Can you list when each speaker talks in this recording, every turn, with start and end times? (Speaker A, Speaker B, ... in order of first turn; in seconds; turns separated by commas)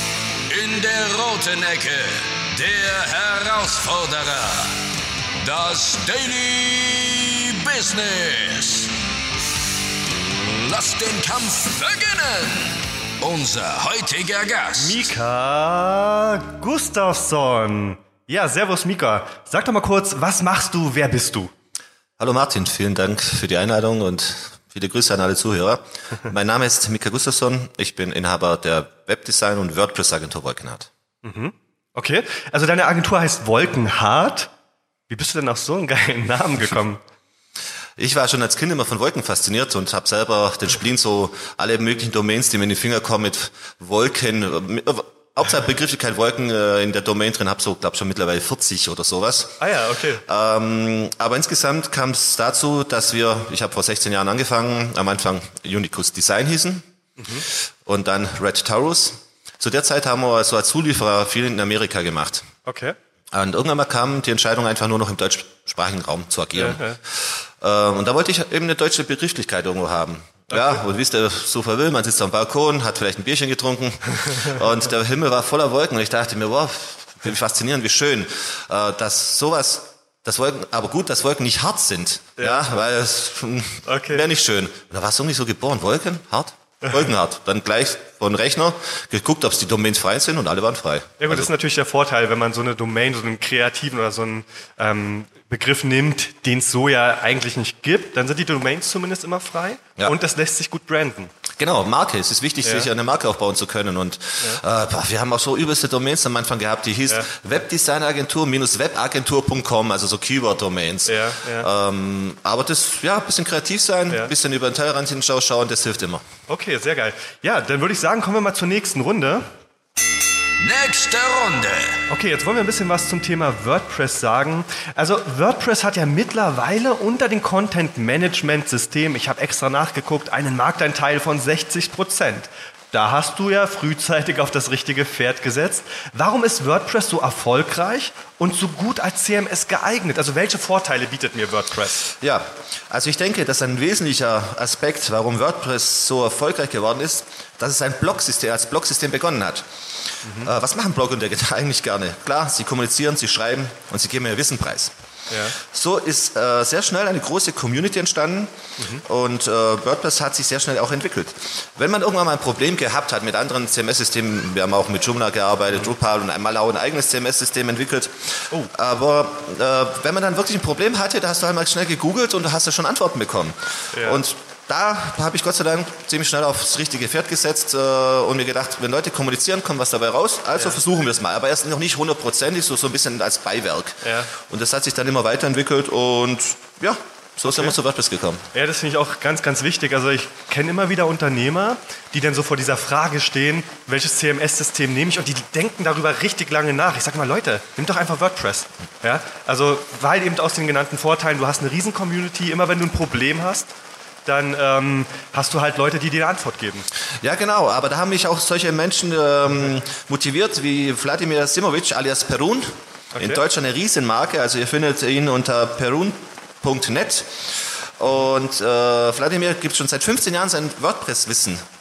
Speaker A: 0.5-4.8, Speaker A: 5.4-8.9, Speaker A: 10.3-15.1, Speaker B: 14.8-21.5, Speaker C: 22.2-30.9, Speaker B: 31.2-34.5, Speaker B: 35.1-37.0, Speaker C: 38.0-49.6, Speaker B: 49.6-50.2, Speaker C: 50.3-56.9, Speaker B: 57.2-57.5, Speaker C: 57.9-62.5, Speaker B: 62.7-63.0, Speaker C: 63.3-91.5, Speaker B: 66.5-67.0, Speaker B: 70.5-70.8, Speaker B: 82.4-82.8, Speaker B: 83.9-84.3, Speaker B: 86.8-87.1, Speaker B: 91.2-101.3, Speaker C: 101.6-116.2, Speaker B: 111.1-111.7, Speaker B: 116.5-119.5, Speaker A: 120.6-122.0, Speaker B: 122.1-142.1, Speaker C: 142.2-149.7, Speaker B: 150.2-150.5, Speaker C: 150.4-154.9, Speaker B: 155.3-155.6, Speaker C: 155.6-188.4, Speaker B: 158.8-159.0, Speaker B: 173.9-174.2, Speaker B: 180.6-180.8, Speaker B: 184.0-184.3, Speaker B: 187.4-187.8, Speaker B: 188.5-203.7, Speaker B: 204.3-206.9, Speaker C: 207.2-221.6, Speaker B: 213.2-213.4